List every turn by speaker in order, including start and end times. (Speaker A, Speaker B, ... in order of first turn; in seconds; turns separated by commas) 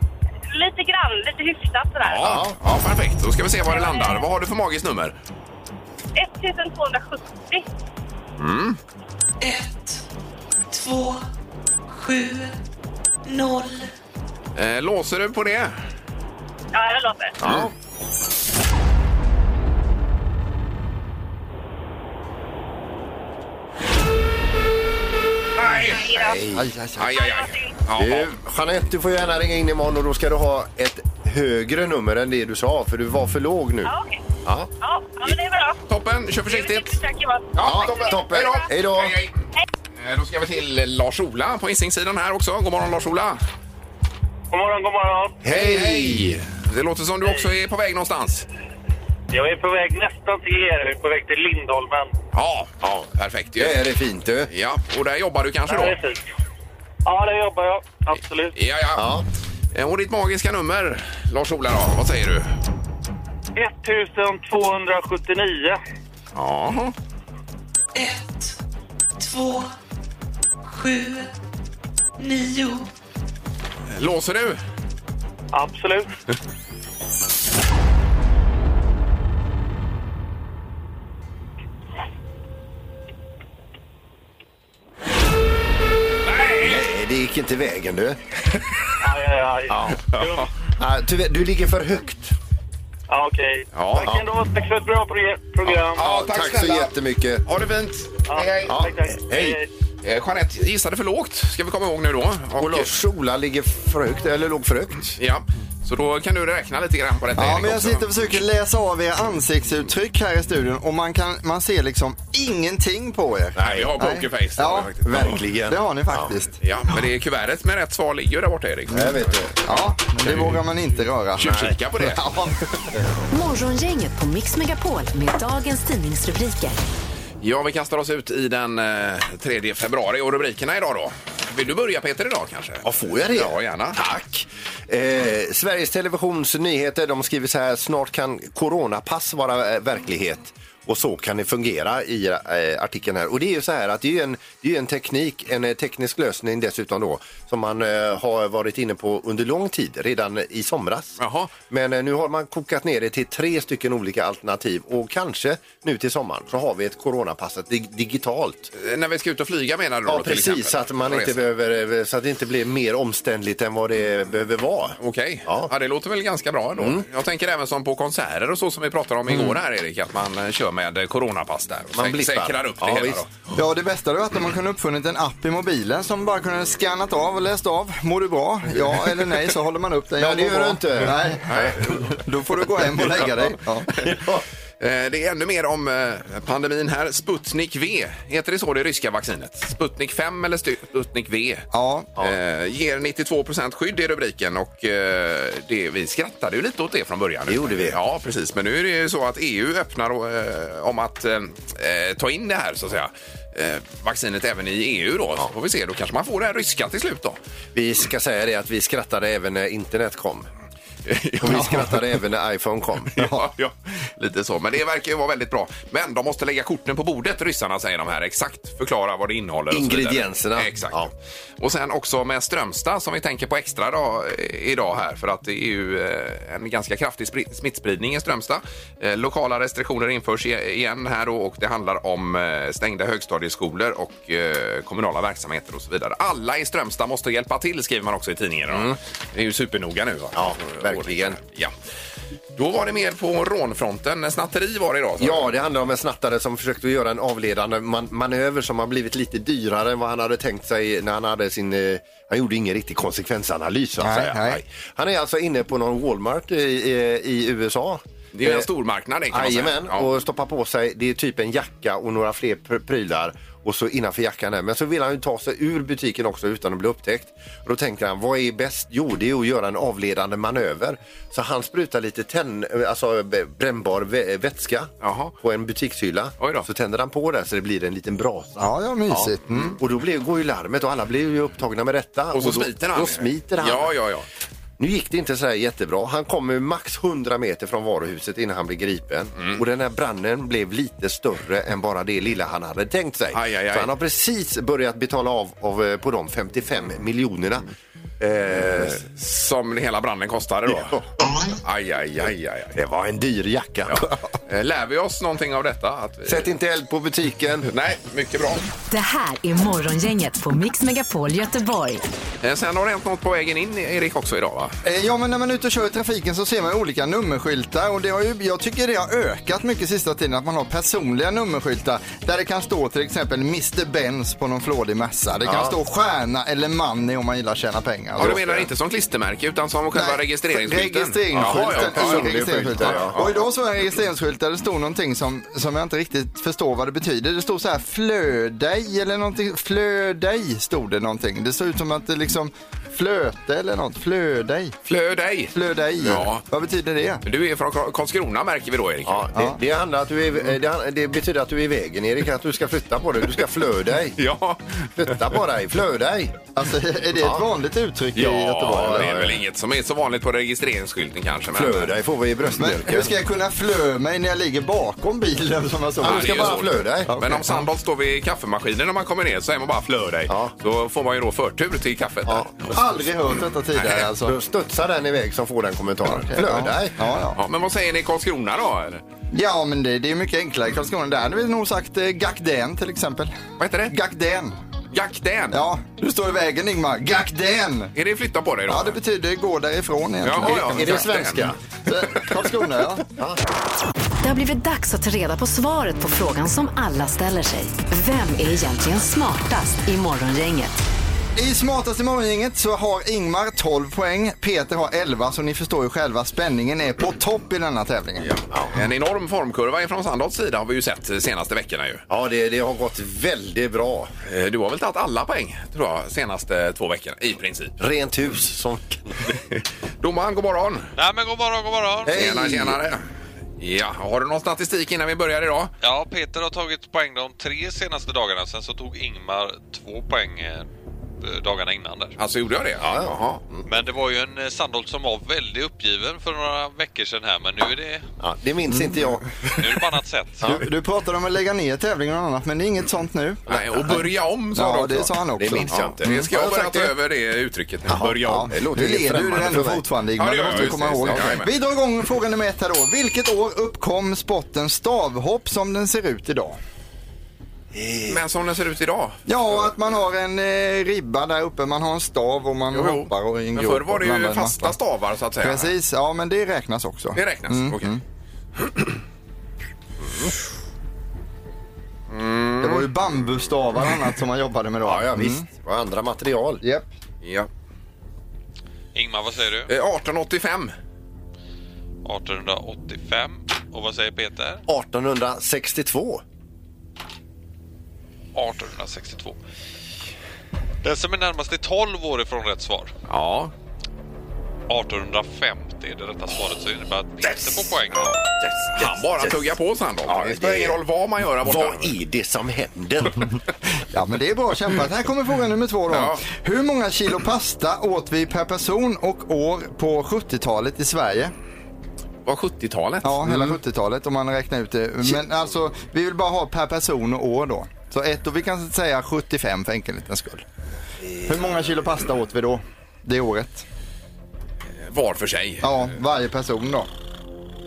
Speaker A: 0.5-2.2, Speaker B: 2.0-5.1, Speaker C: 2.2-2.5, Speaker A: 3.7-4.2, Speaker A: 6.2-7.6, Speaker B: 8.4-8.8, Speaker D: 9.4-10.0, Speaker D: 10.7-11.3, Speaker D: 11.9-12.6, Speaker D: 13.2-13.9, Speaker B: 14.6-15.8, Speaker A: 16.7-17.4, Speaker C: 17.4-17.7, Speaker B: 25.6-26.1, Speaker A: 25.9-26.4, Speaker C: 26.0-26.7, Speaker E: 26.6-27.0, Speaker B: 27.0-28.3, Speaker A: 27.1-27.8, Speaker C: 27.9-33.9, Speaker A: 33.8-34.2, Speaker A: 34.8-35.8, Speaker B: 35.9-37.0, Speaker A: 36.5-38.1, Speaker B: 37.5-39.4, Speaker C: 37.6-39.2, Speaker B: 40.0-43.4, Speaker F: 44.5-45.4, Speaker C: 45.4-46.4, Speaker B: 45.4-48.5, Speaker F: 49.3-52.1, Speaker B: 52.3-53.8, Speaker C: 53.6-54.5, Speaker B: 54.5-56.0, Speaker F: 55.7-56.2, Speaker F: 57.0-58.5, Speaker B: 58.5-59.1, Speaker C: 59.0-59.2, Speaker B: 59.7-62.5, Speaker F: 63.5-65.8, Speaker B: 66.3-66.9, Speaker D: 67.9-68.6, Speaker D: 69.2-69.7, Speaker D: 70.7-71.3, Speaker D: 72.2-72.9, Speaker B: 73.9-74.6, Speaker F: 75.5-76.1, Speaker B: 86.2-86.9, Speaker C: 86.6-88.2, Speaker F: 89.0-90.5, Speaker C: 89.7-90.0, Speaker B: 90.1-90.5, Speaker C: 90.8-92.3, Speaker F: 93.1-96.1, Speaker B: 93.7-94.2, Speaker B: 95.6-96.9, Speaker C: 96.0-97.4, Speaker B: 97.4-98.8, Speaker F: 98.3-99.7, Speaker C: 98.7-99.5, Speaker B: 100.0-102.9, Speaker C: 102.6-105.2, Speaker B: 105.2-108.0, Speaker E: 107.4-116.6, Speaker B: 113.6-115.4, Speaker C: 113.6-113.9, Speaker C: 115.0-116.1, Speaker B: 116.6-119.2, Speaker C: 118.9-119.6, Speaker E: 119.7-122.5, Speaker B: 120.2-120.6, Speaker B: 121.4-122.4, Speaker G: 123.3-126.8, Speaker B: 127.4-134.0, Speaker C: 132.8-158.7, Speaker B: 151.2-151.5, Speaker B: 158.7-161.3, Speaker C: 160.1-165.7, Speaker B: 165.0-173.3, Speaker C: 166.8-167.0, Speaker C: 171.9-173.2, Speaker E: 173.6-183.9, Speaker C: 180.2-181.7, Speaker B: 181.5-182.1, Speaker C: 184.0-184.4, Speaker B: 184.8-191.7, Speaker E: 191.7-192.1, Speaker B: 192.2-207.4, Speaker C: 197.5-198.0, Speaker C: 207.7-210.5, Speaker B: 211.1-212.0, Speaker C: 211.4-213.2, Speaker B: 213.2-241.7, Speaker C: 219.7-221.1, Speaker C: 238.7-239.0, Speaker C: 240.3-241.4, Speaker B: 242.6-245.4, Speaker C: 245.2-258.7, Speaker E: 254.0-254.6, Speaker B: 258.3-260.1, Speaker C: 259.3-278.7, Speaker B: 275.0-275.3, Speaker B: 276.4-276.7, Speaker E: 278.6-279.8, Speaker C: 279.3-283.9, Speaker B: 282.3-284.2, Speaker C: 284.8-297.7, Speaker B: 293.3-293.9, Speaker C: 298.2-299.0, Speaker B: 298.7-301.1, Speaker C: 300.7-301.4, Speaker B: 301.6-302.7, Speaker C: 302.7-304.1, Speaker B: 303.9-306.5, Speaker C: 306.2-307.7, Speaker B: 307.6-308.6, Speaker G: 308.9-312.0, Speaker B: 312.4-314.7, Speaker E: 314.8-328.4, Speaker C: 325.4-325.7, Speaker C: 328.2-328.7, Speaker B: 328.2-333.4, Speaker E: 329.9-344.7, Speaker C: 331.4-333.2, Speaker B: 344.9-346.4, Speaker E: 345.5-347.2, Speaker B: 347.2-349.3, Speaker C: 349.1-354.2, Speaker B: 354.2-355.2, Speaker C: 355.0-356.4, Speaker E: 356.5-359.1, Speaker C: 357.1-357.4, Speaker B: 358.1-361.9, Speaker C: 358.8-359.4, Speaker C: 361.5-363.1, Speaker E: 362.6-367.6, Speaker C: 366.0-367.2, Speaker B: 366.0-374.1, Speaker C: 370.3-370.5, Speaker C: 372.2-372.5, Speaker E: 372.7-374.3, Speaker C: 374.2-376.9, Speaker E: 376.1-377.4, Speaker B: 377.4-379.0, Speaker E: 379.3-383.3, Speaker B: 383.6-383.9, Speaker E: 383.9-384.6, Speaker B: 384.9-385.6, Speaker E: 385.5-387.9, Speaker B: 387.9-388.9, Speaker E: 388.7-391.1, Speaker B: 390.2-391.5, Speaker C: 390.4-391.6, Speaker E: 391.9-393.1, Speaker G: 394.2-400.8, Speaker E: 401.4-408.3, Speaker B: 408.3-412.0, Speaker C: 412.1-414.1, Speaker B: 414.2-417.7, Speaker C: 417.8-419.2, Speaker B: 419.3-420.9, Speaker H: 420.9-422.2, Speaker C: 422.1-422.8, Speaker B: 422.1-423.0, Speaker B: 423.6-425.7, Speaker H: 425.8-430.7, Speaker H: 431.2-432.1, Speaker B: 432.2-433.4, Speaker C: 432.8-433.6, Speaker H: 433.7-438.1, Speaker C: 438.2-439.4, Speaker H: 439.6-440.4, Speaker E: 440.4-445.7, Speaker B: 443.5-448.5, Speaker C: 445.4-446.9, Speaker C: 447.9-449.8, Speaker E: 448.2-456.6, Speaker B: 450.2-451.5, Speaker C: 457.7-458.2, Speaker B: 458.1-459.2, Speaker E: 459.3-464.7, Speaker B: 462.7-465.7, Speaker E: 465.4-468.0, Speaker B: 467.1-467.9, Speaker B: 472.1-472.9, Speaker E: 472.6-475.5, Speaker C: 474.8-476.6, Speaker E: 476.6-476.9, Speaker B: 477.2-477.5, Speaker H: 478.9-479.7, Speaker B: 479.7-480.7, Speaker H: 482.0-484.6, Speaker C: 484.7-486.2, Speaker H: 488.3-489.4, Speaker H: 490.8-492.9, Speaker B: 493.1-493.5, Speaker H: 494.7-498.1, Speaker B: 498.8-501.9, Speaker C: 500.1-500.8, Speaker C: 501.4-503.4, Speaker E: 503.9-511.3, Speaker B: 505.9-506.2, Speaker B: 512.2-513.6, Speaker E: 513.0-520.5, Speaker C: 521.0-521.3, Speaker E: 521.2-523.6, Speaker B: 524.8-525.9, Speaker E: 525.6-526.9